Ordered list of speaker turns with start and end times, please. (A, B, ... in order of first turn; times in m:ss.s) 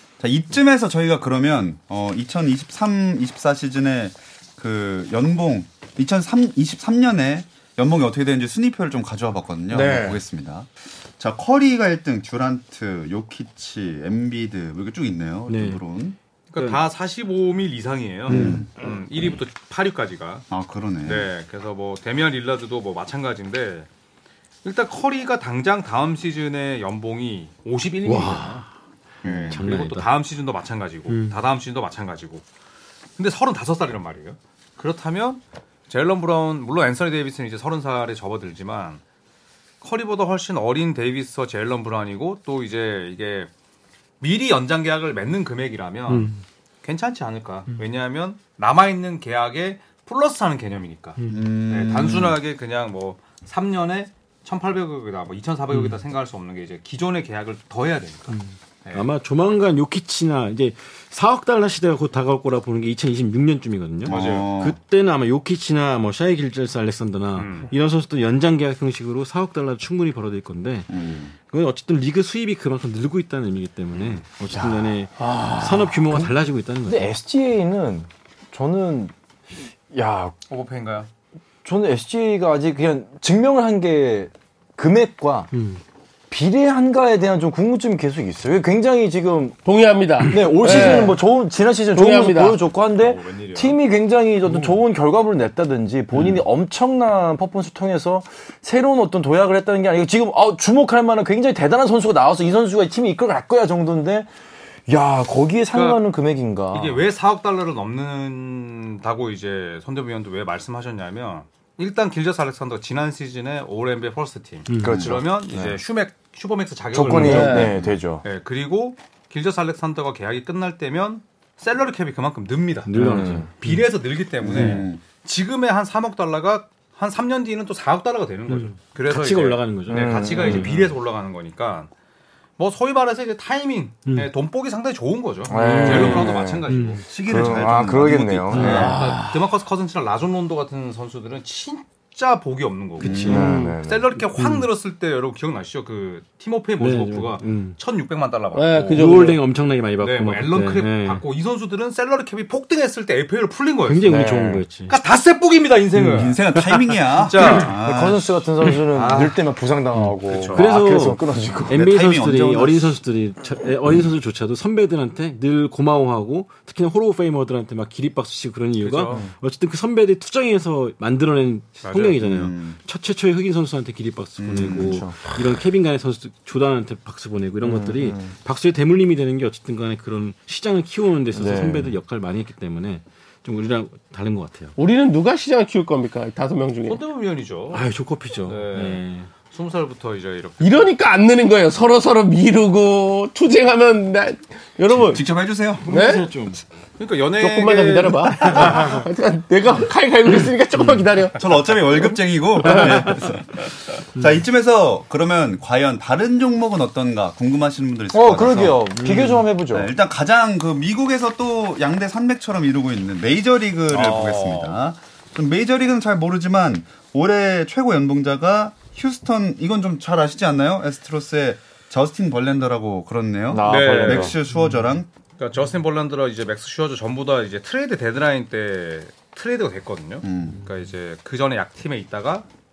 0:00.2-0:16.2 A
0:09.7-0:10.2 B
0:15.5-0:15.8 C
0:16.5-0:20.5 D
0:18.3-0:18.7 C
0:18.3-0:18.7 A
0:20.5-0:21.3 A
0:21.0-0:23.9 D
0:24.6-0:28.6 D
0:28.0-0:28.6 C
0:29.2-0:29.6 A
0:29.2-0:32.4 D
0:29.5-0:30.1 C
0:31.1-0:31.4 C
0:33.2-0:39.0 D
0:39.8-0:43.5 D
0:44.2-0:59.1 D
0:46.1-0:46.4 C
0:51.2-0:51.4 C
0:51.3-0:52.4 A
0:58.3-1:17.1 C
1:04.0-1:04.6 D
1:04.1-1:04.8 A
1:07.4-1:07.7 D
1:10.9-1:11.3 A
1:14.0-1:14.2 D
1:14.5-1:14.9 E
1:15.2-1:16.3 B
1:16.9-1:19.1 E
1:19.9-1:20.4 E
1:20.5-1:21.1 D
1:21.6-1:25.5 E
1:25.5-1:25.8 C
1:26.3-1:29.6 E
1:29.6-1:31.2 B
1:30.2-1:44.3 E
1:31.9-1:32.6 B
1:32.8-1:33.8 D
1:34.5-1:34.8 C
1:44.9-1:47.0 E
1:45.7-1:46.0 D
1:46.7-2:02.9 D
1:54.7-1:55.0 C
1:54.8-1:55.8 E
1:54.8-1:55.2 A
1:56.9-1:58.2 E
1:57.1-1:57.4 C
1:57.2-1:57.7 B
1:57.5-1:57.9 A
2:02.9-2:03.8 C
2:03.0-2:03.5 E
2:03.6-2:11.9 D
2:04.4-2:05.0 A
2:04.5-2:04.8 C
2:08.5-2:10.9 C
2:09.9-2:10.7 E
2:12.6-2:17.0 D
2:15.5-2:16.7 E
2:15.5-2:17.5 C
2:17.1-2:19.0 A
2:17.3-2:18.8 E
2:18.5-2:19.0 C
2:18.5-2:29.2 D
2:18.6-2:19.4 B
2:23.0-2:23.6 C
2:23.0-2:23.4 A
2:23.2-2:24.1 E
2:23.3-2:23.8 B
2:24.4-2:24.7 C
2:26.8-2:27.8 C
2:28.5-2:29.4 B
2:28.9-2:31.2 C
2:30.0-2:34.2 D
2:33.8-2:35.0 C
2:34.1-2:34.6 E
2:34.9-2:36.4 D
2:36.0-2:36.9 C
2:36.1-2:38.3 A
2:37.1-2:37.8 D
2:37.8-2:41.7 E
2:38.9-2:39.5 D
2:40.0-3:04.7 C
2:40.3-2:40.7 D
2:41.7-2:43.0 A
2:48.8-2:49.2 D
2:51.8-2:52.2 D
2:52.2-2:52.8 A
2:54.4-2:55.0 A
2:54.8-2:55.4 E
2:57.6-2:58.3 E
3:01.4-3:01.9 E
3:04.8-3:07.0 B
3:06.8-3:07.8 D
3:07.7-3:09.3 C
3:08.5-3:11.0 D
3:10.6-3:15.2 B
3:15.0-3:15.9 A
3:15.9-3:16.3 B
3:15.9-3:16.6 C
3:17.0-3:18.9 D
3:17.4-3:21.4 B
3:20.7-3:21.1 C
3:21.4-3:28.9 A
3:22.6-3:23.0 B
3:22.6-3:23.2 C
3:28.1-3:29.9 E
3:28.9-3:29.5 C
3:29.7-3:45.1 A
3:33.9-3:34.8 D
3:43.5-3:44.4 E
3:43.6-3:44.4 D
3:45.4-3:52.5 D
3:50.2-3:50.6 A